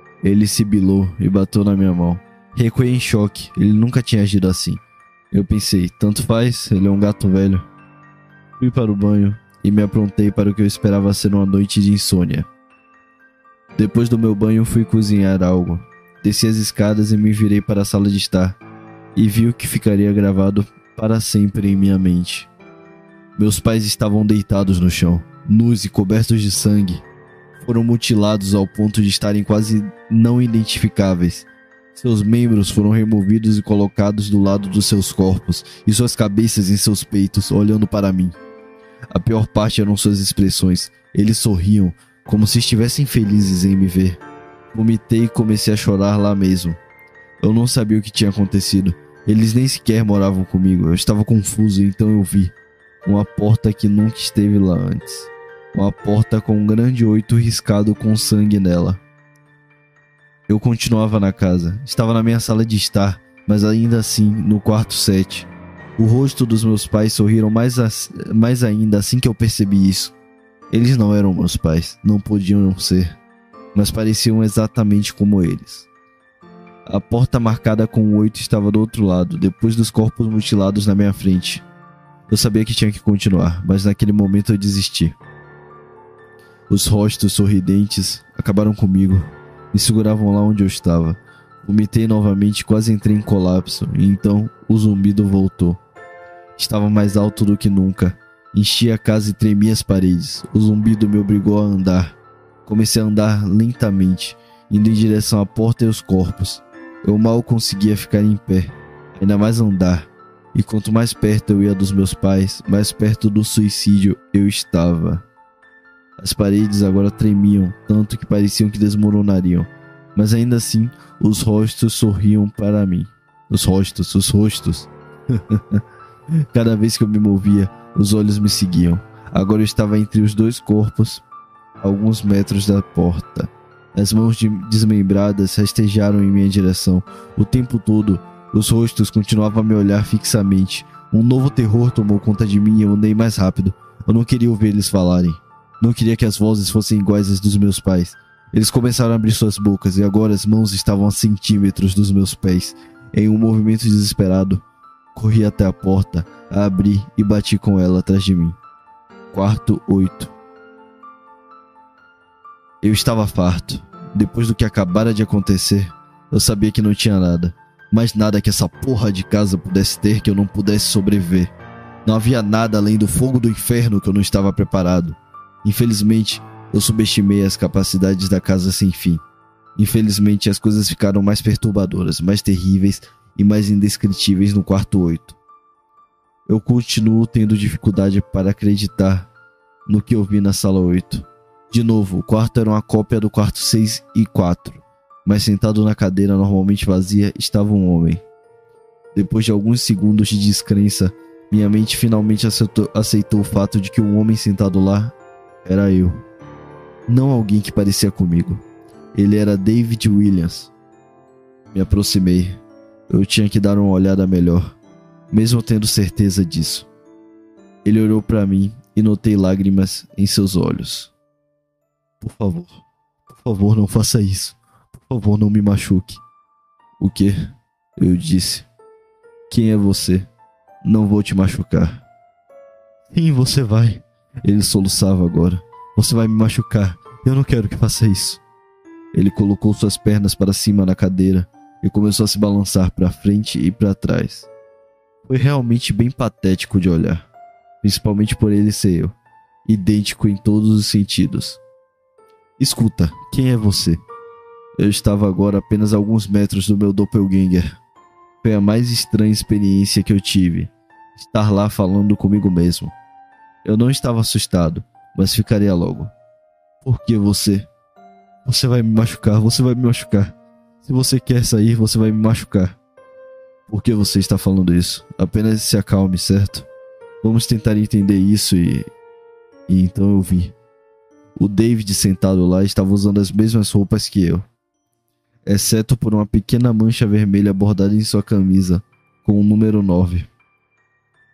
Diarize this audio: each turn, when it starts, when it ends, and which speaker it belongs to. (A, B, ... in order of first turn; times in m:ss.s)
0:00.2-0:04.8 A
0:05.3-0:07.7 A
0:08.6-0:12.5 A
0:13.7-0:18.6 A
0:19.1-0:22.5 A
0:23.4-0:27.0 A
0:27.6-0:38.4 A
0:39.1-0:44.2 A
0:44.7-0:46.8 A
0:47.4-0:52.5 A
0:53.0-0:59.0 A
1:00.5-1:10.1 A
1:10.7-1:13.1 A
1:13.7-1:15.9 A
1:16.8-1:21.6 A
1:22.3-1:25.2 A
1:26.7-1:35.8 A
1:36.6-1:55.2 A
1:56.2-2:05.8 A
2:06.5-2:11.2 A
2:11.8-2:34.6 A
2:35.1-2:38.6 A
2:39.3-2:40.3 A
2:42.8-2:51.5 A
2:52.0-2:59.2 A
2:59.8-3:05.4 A
3:06.5-3:09.3 A
3:09.9-3:18.2 A
3:19.1-3:26.2 A
3:27.1-3:28.6 A
3:29.1-3:30.7 A
3:31.7-3:34.8 A
3:35.3-3:36.9 A
3:37.8-3:41.1 A
3:42.2-3:46.2 A
3:47.0-3:47.3 A
3:48.0-3:48.7 A
3:49.5-3:50.3 A
3:50.8-3:52.0 A
3:53.1-3:58.4 A
3:59.1-4:04.5 A
4:05.2-4:07.2 A
4:07.8-4:09.1 A
4:09.6-4:11.6 A
4:12.6-4:14.0 A
4:14.8-4:17.7 A
4:18.4-4:22.9 A
4:23.6-4:26.1 A
4:26.8-4:27.7 A
4:28.4-4:32.8 A
4:33.7-4:36.7 A
4:37.2-4:38.9 A
4:39.7-4:40.5 A
4:41.4-4:44.4 A
4:45.4-4:50.3 A